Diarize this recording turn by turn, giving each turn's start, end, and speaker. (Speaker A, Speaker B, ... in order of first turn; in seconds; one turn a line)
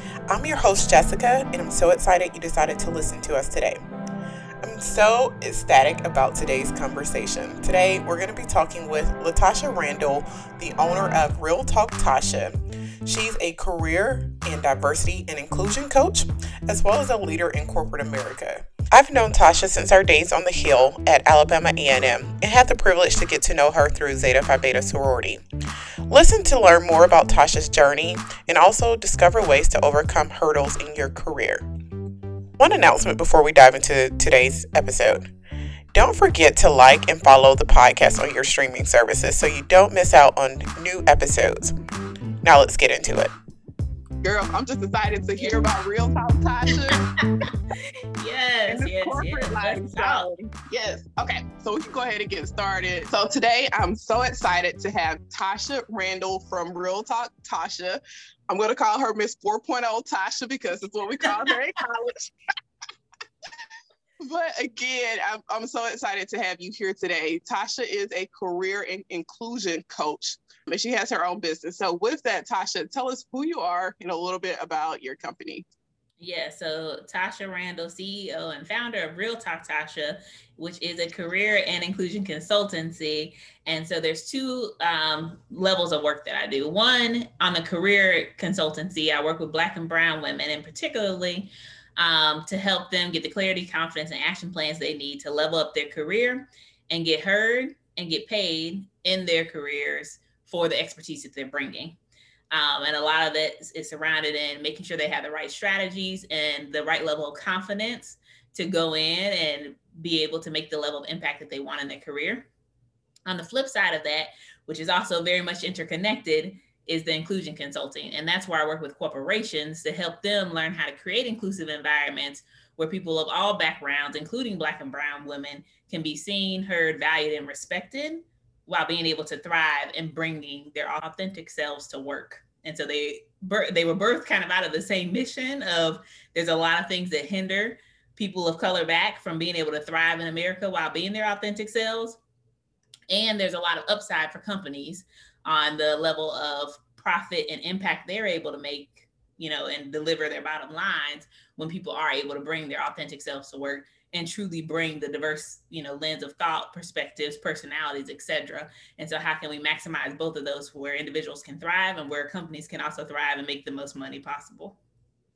Speaker A: 0.3-3.8
Speaker A: 4.6-25.4
Speaker A: 26.1-31.6
Speaker A: 32.6-35.3
Speaker A: 35.9-41.7
Speaker A: 42.4-43.3
Speaker B: 44.2-47.0
Speaker C: 48.2-50.3
Speaker B: 48.7-62.3
Speaker C: 61.3-61.5
Speaker B: 64.2-75.7
Speaker C: 76.2-102.0
Speaker C: 102.5-112.5
Speaker C: 113.3-142.2
Speaker C: 143.1-164.8